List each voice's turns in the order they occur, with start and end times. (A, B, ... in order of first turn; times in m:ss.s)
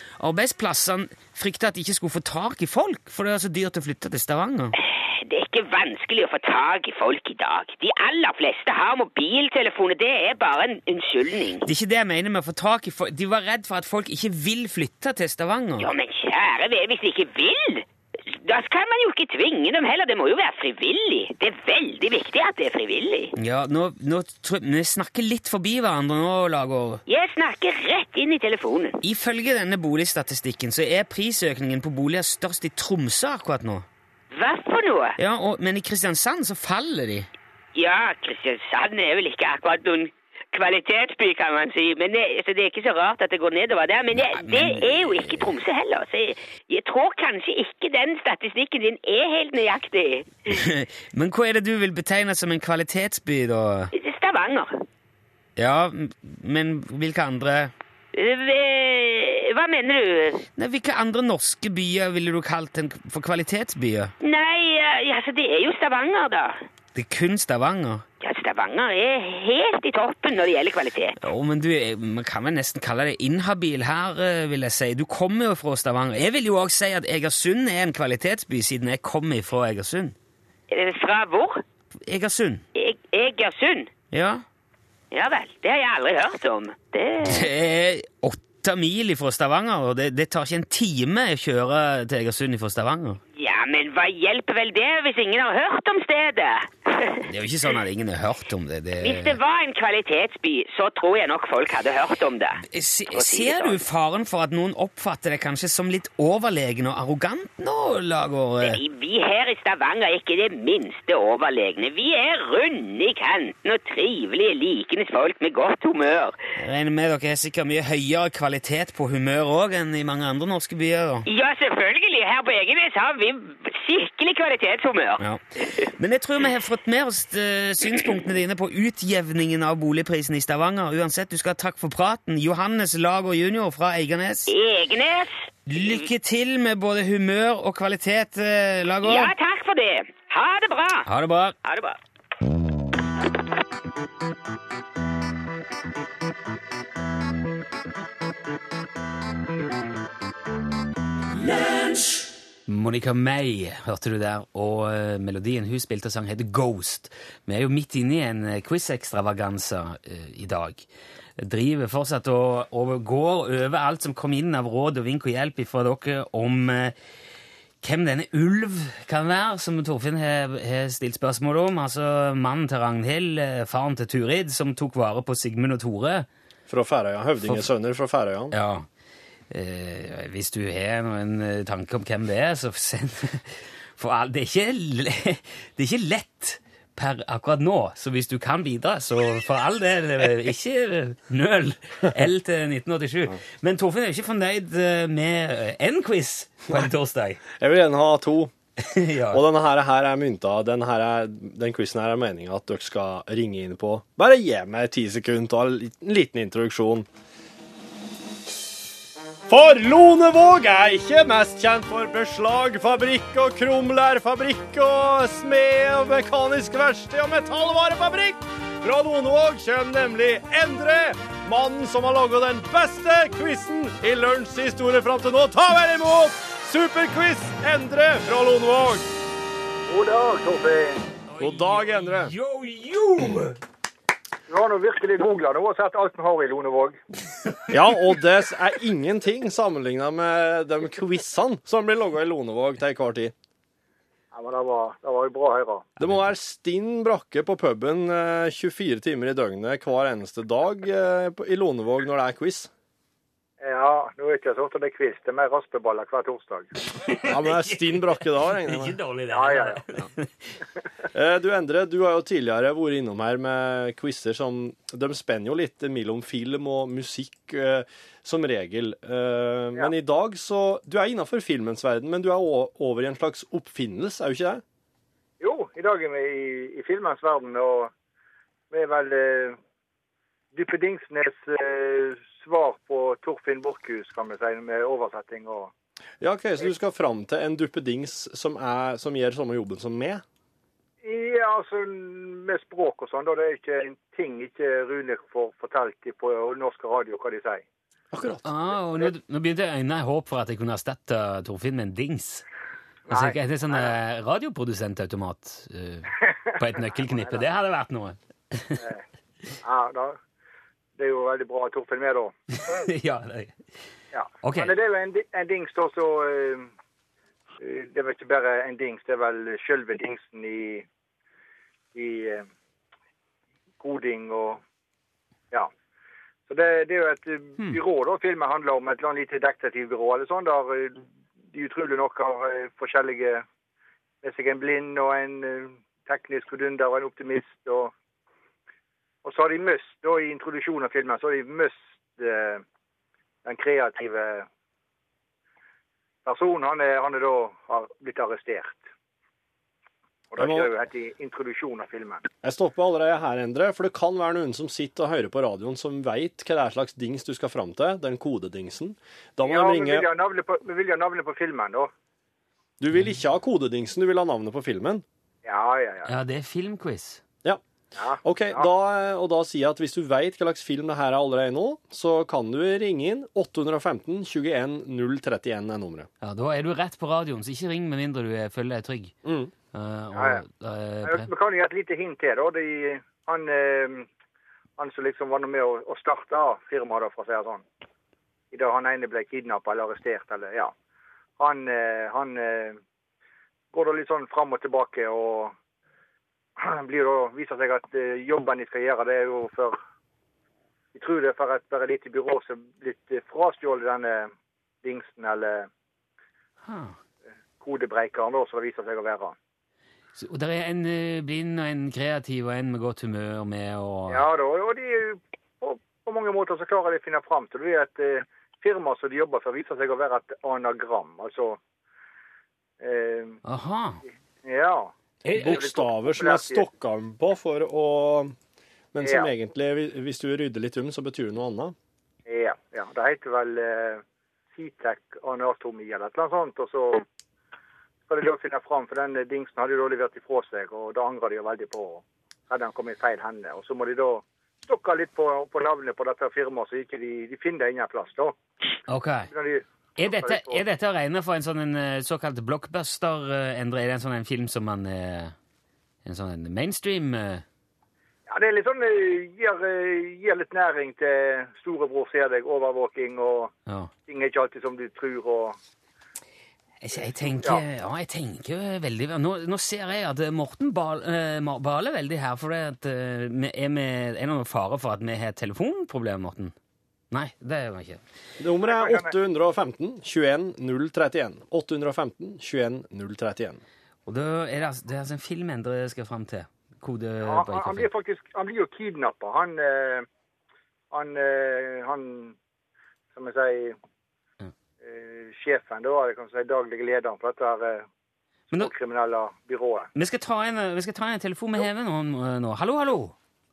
0:00.2-0:04.7 A
0:04.8-0:11.6 B
0:11.6-0:15.9 A
0:15.8-0:23.3 B
0:23.4-0:27.0 A
0:27.1-0:29.0 B
0:29.0-0:33.8 A
0:34.3-0:35.1 B
0:35.2-0:37.3 A
0:37.8-0:50.4 B
0:44.2-0:45.5 A
0:50.5-0:53.9 A
0:53.9-0:54.7 B
0:55.6-0:57.7 A
0:58.1-1:00.4 B
1:00.6-1:04.1 A
1:04.2-1:06.6 B
1:06.9-1:08.0 A
1:08.2-1:11.2 B
1:11.2-1:20.2 A
1:20.7-1:21.6 B
1:22.1-1:22.6 A
1:22.7-1:23.9 B
1:24.1-1:24.4 A
1:25.1-1:27.5 B
1:27.2-1:33.2 A
1:33.4-1:37.2 B
1:37.3-1:39.4 A
1:39.0-1:42.6 B
1:42.6-1:48.8 A
1:43.1-1:43.8 B
1:48.6-1:56.4 B
1:56.6-2:01.3 A
2:01.3-2:05.8 B
2:05.9-2:14.5 A
2:14.5-2:15.9 B
2:15.7-2:19.3 A
2:19.0-2:21.1 B
2:21.1-2:21.5 A
2:21.6-2:22.0 B
2:32.7-2:40.8 A
2:41.4-2:46.9 A
2:47.8-2:56.3 A
2:56.7-2:58.5 C
2:58.5-2:58.8 A
2:59.5-3:17.4 A
3:17.6-3:18.5 C
3:18.8-3:19.4 A
3:19.3-3:27.1 C
3:29.5-3:49.1 C
3:49.9-3:51.0 D
3:51.3-3:53.6 A
3:51.4-3:52.3 C
3:54.5-3:57.0 D
3:57.7-4:03.3 C
4:04.3-4:05.9 D
4:06.0-4:12.7 C
4:13.6-4:16.7 D
4:17.0-4:20.5 A
4:17.2-4:19.0 C
4:19.3-4:19.8 D
4:21.1-4:34.6 C
4:35.4-4:37.9 D
4:38.7-4:39.6 D
4:40.5-4:45.7 D
4:46.2-4:50.2 C
4:51.0-4:57.6 D
4:58.1-4:58.5 C
4:58.4-5:02.4 A
5:03.1-5:03.9 D
5:03.1-5:08.8 A
5:06.9-5:07.4 D
5:09.6-5:10.2 D
5:11.0-5:12.3 D
5:12.7-5:13.6 A
5:14.1-5:16.7 D
5:14.4-5:14.7 A
5:17.6-5:20.8 D
5:21.9-5:22.4 D
5:23.8-5:24.6 D
5:26.5-5:33.4 D
5:34.2-5:37.9 D
5:39.2-5:42.6 D
5:43.4-5:44.5 D
5:46.2-5:48.8 D
5:50.3-5:52.3 D
5:50.4-5:50.7 C
5:52.4-6:00.1 C
5:59.4-6:01.9 D
6:02.8-6:05.0 C
6:05.4-6:06.1 D
6:06.0-6:07.2 A
6:08.0-6:08.7 D
6:08.2-6:16.1 C
6:16.2-6:19.1 A
6:19.2-6:19.5 C
6:19.7-6:21.3 A
6:20.2-6:20.4 D
6:21.0-6:24.1 D
6:24.8-6:27.6 D
6:28.5-6:30.7 D
6:31.4-6:32.8 D
6:33.7-6:35.5 D
6:36.6-6:39.8 D
6:40.9-6:44.3 D
6:44.8-6:45.7 D
6:46.6-6:47.0 A
6:47.6-6:49.4 D
6:50.2-6:54.2 A
6:54.1-7:01.6 D
7:02.8-7:03.4 D
7:03.4-7:04.0 A
7:04.4-7:06.6 D
7:05.2-7:08.3 C
7:08.9-7:11.7 C
7:09.0-7:09.3 D
7:12.2-7:14.0 D
7:14.5-7:17.0 D
7:18.1-7:28.4 D
7:28.9-7:29.3 A
7:29.3-7:30.6 D
7:30.0-7:35.3 A
7:36.0-7:37.4 A
7:38.3-7:43.5 D
7:43.6-7:43.9 A
7:44.1-7:45.6 D
7:46.8-7:56.5 A
7:57.1-7:58.0 A
7:58.4-8:03.6 C
7:58.6-7:59.1 D
8:04.0-8:07.9 A
8:07.2-8:10.1 D
8:10.9-8:12.4 D
8:13.1-8:13.8 D
8:14.8-8:17.8 D
8:18.5-8:19.9 D
8:19.9-8:23.1 A